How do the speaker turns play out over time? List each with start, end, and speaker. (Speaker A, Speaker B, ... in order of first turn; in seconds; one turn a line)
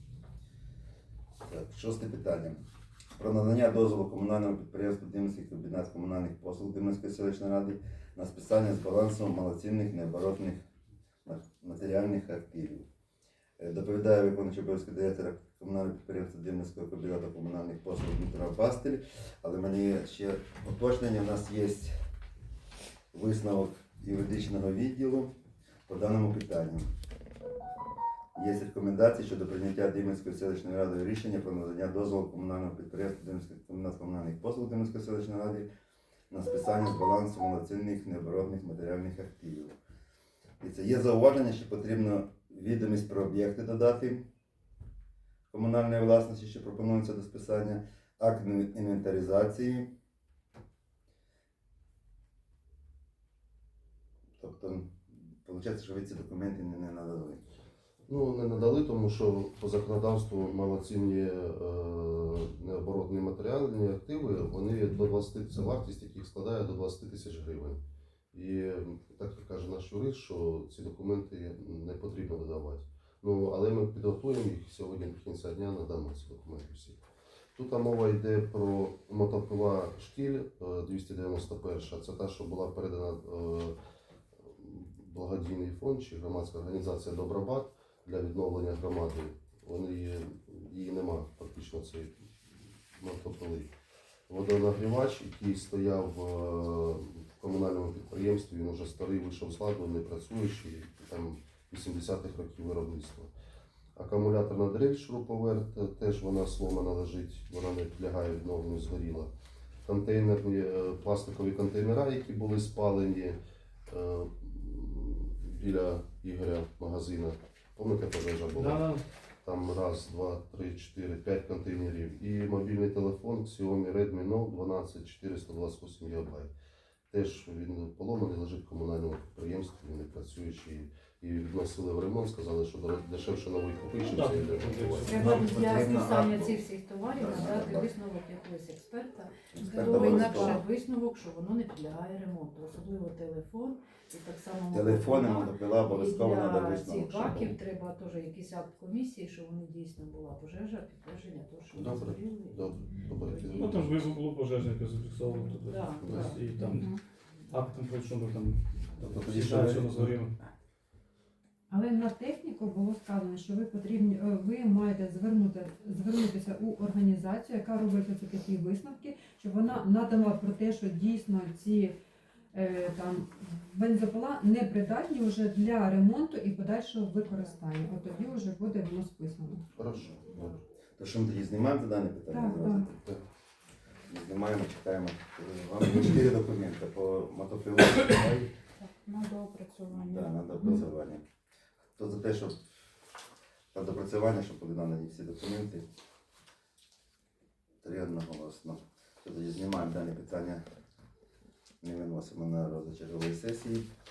Speaker A: 1.4-2.6
Speaker A: 3.1-10.6
Speaker A: 11.2-12.8
Speaker A: 13.6-21.9
Speaker A: 23.1-25.3
Speaker A: 25.9-26.8
Speaker A: 28.3-35.7
Speaker A: 36.3-39.7
Speaker A: 40.6-44.2
Speaker A: 45.5-49.9
Speaker A: 54.4-57.4
Speaker B: 58.1-67.8
Speaker B: 68.3-77.0
Speaker B: 77.5-83.7
Speaker B: 84.4-92.2
Speaker B: 92.9-93.7
Speaker B: 94.3-103.3
Speaker B: 104.0-109.3
Speaker B: 109.8-126.5
Speaker C: 118.5-119.0
Speaker B: 127.1-135.3
Speaker C: 134.0-135.6
Speaker D: 135.1-153.9
Speaker A: 135.1-137.9
Speaker A: 139.5-140.6
Speaker E: 139.7-140.6
Speaker A: 144.7-147.5
Speaker B: 151.7-154.1
Speaker C: 153.6-156.9
Speaker D: 155.3-157.7
Speaker B: 156.0-156.3
Speaker E: 156.7-157.0
Speaker C: 157.5-160.3
Speaker A: 159.0-160.2
Speaker F: 161.7-172.0
Speaker F: 172.5-179.7
Speaker B: 179.8-180.5
Speaker A: 181.0-183.0
Speaker F: 182.3-182.9
Speaker A: 184.1-188.5
Speaker E: 188.8-190.3
Speaker A: 189.9-191.2
Speaker A: 191.9-192.6
Speaker A: 193.7-195.8
Speaker A: 197.8-200.6
Speaker A: 201.8-203.9